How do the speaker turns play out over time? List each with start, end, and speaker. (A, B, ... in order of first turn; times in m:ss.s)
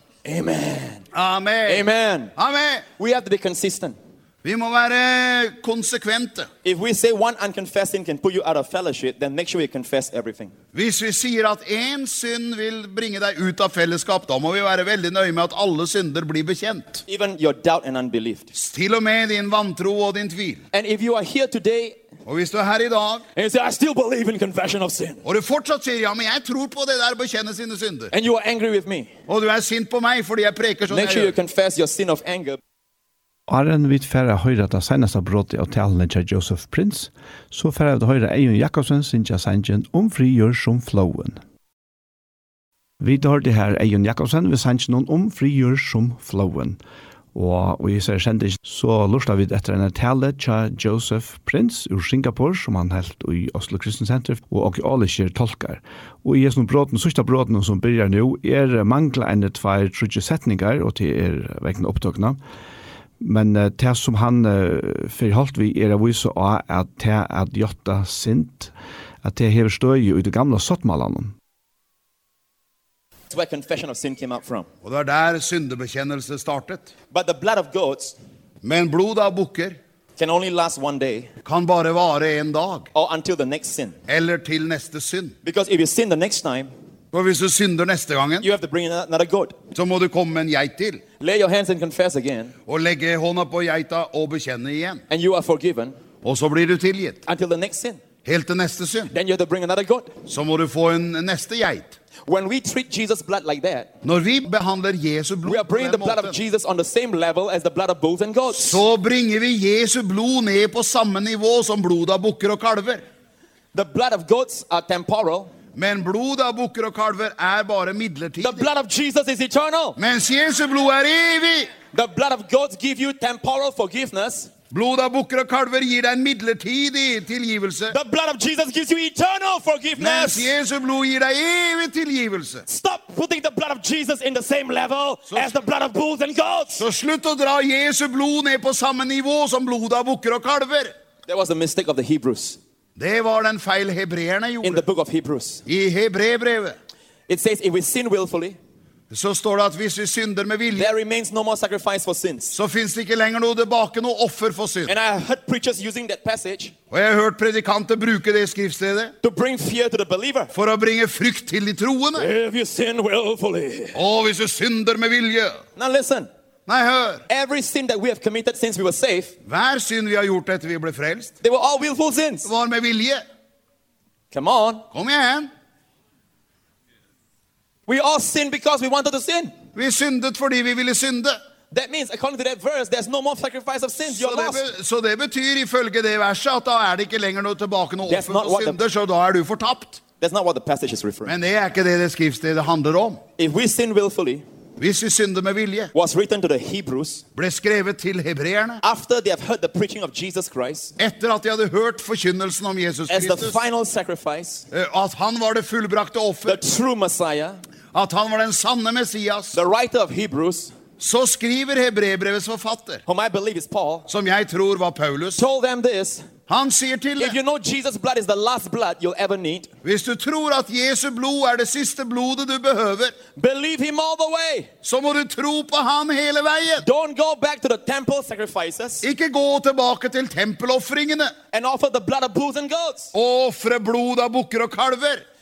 0:00.2-0:01.0 A
0:01.1-0:02.9 B
0:01.7-0:02.3 A
0:03.0-0:04.0 A
0:04.4-0:06.5 B
0:06.6-0:10.5 A
0:10.7-0:17.0 B
0:17.1-0:18.5 A
0:18.5-0:20.6 B
0:20.7-0:22.0 A
0:22.2-0:23.2 B
0:23.4-0:25.2 A
0:25.2-0:28.1 B
0:28.1-0:29.1 A
0:29.3-0:31.3 B
0:30.9-0:32.6 A
0:33.5-0:41.4 C
0:43.0-0:46.8 C
0:47.3-1:02.4 C
1:03.2-1:08.7 C
1:09.2-1:11.4 C
1:13.3-1:14.7 A
1:14.8-1:16.9 B
1:17.1-1:18.2 A
1:18.6-1:19.8 B
1:20.2-1:21.3 A
1:21.4-1:22.9 B
1:22.9-1:24.0 A
1:24.1-1:25.3 B
1:25.4-1:26.7 A
1:27.1-1:28.5 B
1:28.4-1:29.6 A
1:29.7-1:31.0 B
1:31.2-1:32.5 A
1:32.7-1:35.0 B
1:35.1-1:36.0 A
1:36.2-1:37.2 B
1:37.2-1:38.0 A
1:38.2-1:39.1 B
1:39.1-1:40.1 A
1:40.3-1:42.0 B
1:42.2-1:43.9 A
1:44.0-1:46.4 B
1:45.4-1:48.8 A
1:48.5-1:53.0 B
1:53.7-1:55.5 A
1:55.7-1:58.7 B
1:58.4-2:00.0 A
2:00.0-2:01.7 B
2:01.9-2:04.5 A
2:04.7-2:08.0 B
2:07.9-2:10.5 A
2:10.0-2:12.6 B
2:12.7-2:16.8 A
2:15.3-2:15.6 B
2:16.8-2:20.9 B
2:21.3-2:22.6 A
2:23.0-2:24.8 B
2:24.6-2:25.6 A
2:25.6-2:26.8 B
2:27.3-2:28.6 A
2:29.1-2:30.9 B
2:30.8-2:32.5 A
2:32.5-2:34.9 B
2:34.9-2:36.7 A
2:36.9-2:39.1 B
2:39.2-2:40.5 A
2:40.5-2:42.3 B
2:42.2-2:44.0 A
2:43.9-2:45.6 B
2:45.8-2:46.3 A
2:46.7-2:47.2 B
2:47.3-2:49.3 A
2:49.4-2:51.3 B
2:51.4-2:52.5 A
2:52.4-2:53.2 B
2:54.3-2:54.8 A
2:54.9-2:55.5 B
2:57.9-2:59.5 A
2:59.7-3:01.3 B
3:01.7-3:04.6 A
3:04.0-3:10.0 B
3:08.1-3:08.8 A
3:10.2-3:11.3 A
3:11.2-3:13.2 B
3:13.4-3:14.4 A
3:14.8-3:15.9 B
3:15.9-3:17.2 A
3:17.4-3:18.8 B
3:18.8-3:20.9 A
3:21.0-3:23.6 B
3:23.1-3:24.7 A
3:24.7-3:26.6 B
3:26.4-3:27.6 A
3:27.9-3:29.6 B
3:29.5-3:30.7 A
3:31.0-3:33.0 B
3:33.1-3:34.1 A
3:34.1-3:35.4 B
3:35.4-3:36.2 A
3:36.5-3:37.4 B
3:37.2-3:39.7 A
3:39.8-3:43.2 B
3:43.3-3:44.7 A
3:44.8-3:46.8 B
3:46.8-3:49.0 A
3:49.0-3:51.3 B
3:51.5-3:53.1 A
3:53.1-3:55.2 B